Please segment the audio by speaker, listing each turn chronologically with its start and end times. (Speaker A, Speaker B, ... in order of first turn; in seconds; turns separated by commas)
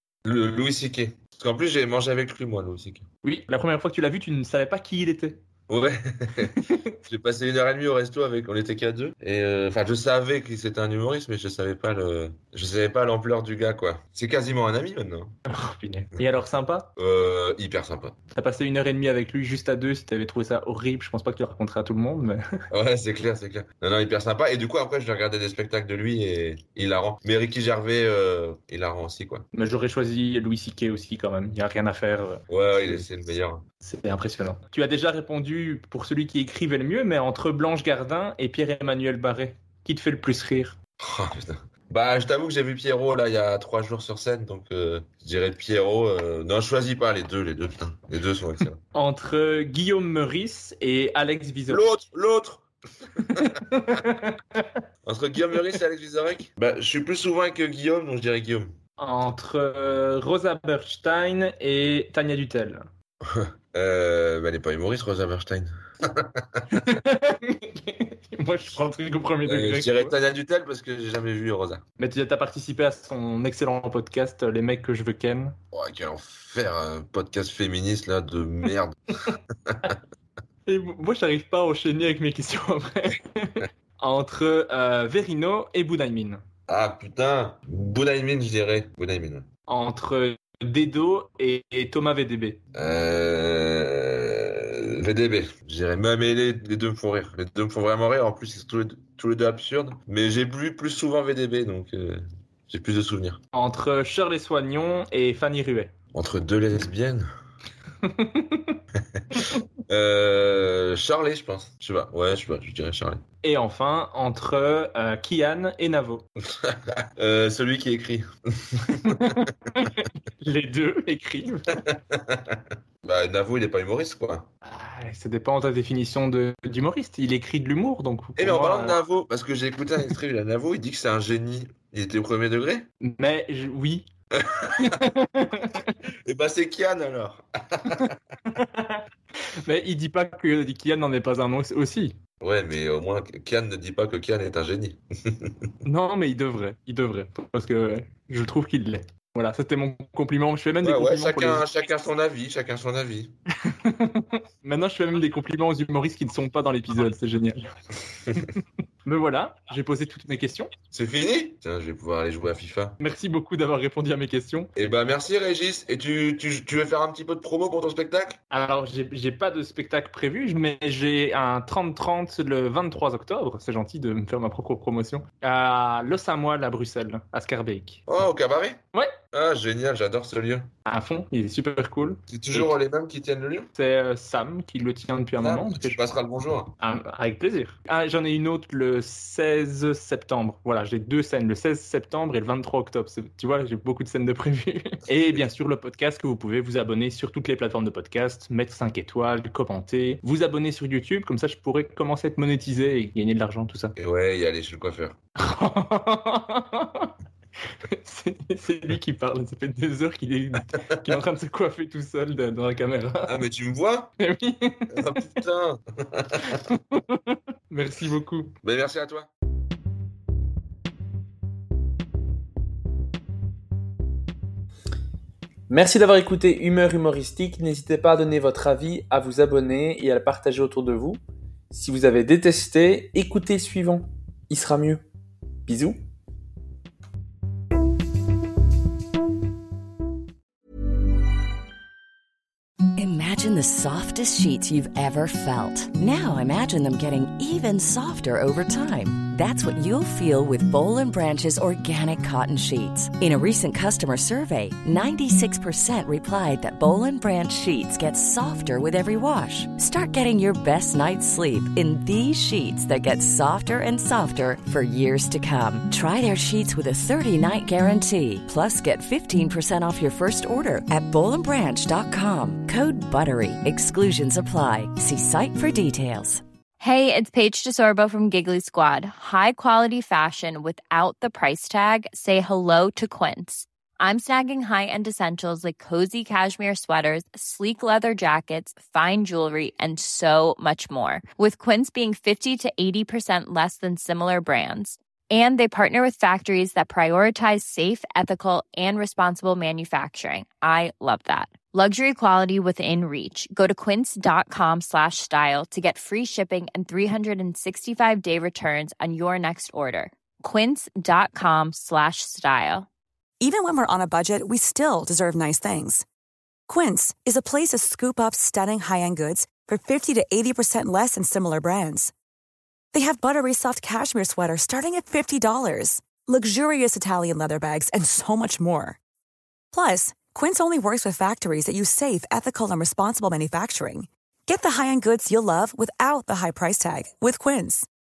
Speaker A: 0.2-3.1, Speaker B: 3.2-5.4, Speaker A: 5.7-15.4, Speaker B: 15.5-16.9, Speaker A: 17.0-18.2, Speaker B: 18.4-22.4, Speaker A: 22.7-29.5, Speaker B: 29.5-33.0, Speaker A: 32.5-33.6, Speaker B: 33.8-40.8, Speaker A: 41.0-48.8, Speaker B: 48.9-51.9, Speaker A: 51.7-52.6, Speaker A: 53.3-53.6, Speaker B: 53.3-54.7, Speaker A: 55.0-58.8, Speaker B: 59.0-62.9, Speaker A: 63.2-66.7, Speaker B: 66.7-70.2, Speaker A: 69.4-71.8, Speaker B: 72.0-75.6, Speaker A: 75.7-79.0, Speaker A: 79.7-80.0, Speaker B: 80.7-86.4, Speaker A: 86.7-89.5, Speaker B: 89.7-92.6, Speaker A: 92.7-103.4, Speaker B: 103.5-105.9, Speaker A: 106.1-107.3, Speaker B: 108.0-108.8, Speaker A: 109.9-113.2, Speaker B: 113.4-116.2, Speaker A: 116.4-119.3, Speaker B: 119.0-121.8, Speaker A: 121.9-124.5, Speaker B: 124.6-129.0, Speaker A: 128.4-132.9, Speaker B: 133.0-134.1, Speaker A: 134.3-135.0, Speaker B: 134.8-135.9, Speaker A: 136.2-138.2, Speaker B: 137.9-139.0, Speaker B: 139.6-142.2, Speaker A: 142.4-145.7, Speaker B: 145.8-151.7, Speaker A: 150.8-153.3, Speaker B: 153.7-157.6, Speaker B: 158.4-160.7, Speaker A: 160.9-163.0, Speaker B: 163.0-164.7, Speaker A: 164.8-168.4, Speaker B: 168.5-178.1, Speaker A: 178.1-178.8, Speaker A: 179.3-180.7, Speaker B: 180.9-182.7, Speaker A: 182.3-183.7, Speaker B: 183.8-186.1, Speaker A: 185.4-186.8, Speaker B: 186.8-203.9, Speaker A: 204.0-205.2, Speaker B: 205.4-207.1, Speaker B: 207.9-213.4, Speaker A: 213.3-214.1, Speaker B: 214.2-215.1, Speaker A: 214.9-216.6, Speaker B: 216.5-218.5, Speaker A: 218.6-219.3, Speaker C: 225.7-235.0, Speaker C: 235.7-236.0, Speaker D: 243.0-276.4, Speaker E: 276.8-312.9, Speaker F: 313.4-316.1, Speaker F: 316.7-322.1, Speaker F: 322.9-329.0, Speaker F: 329.7-337.9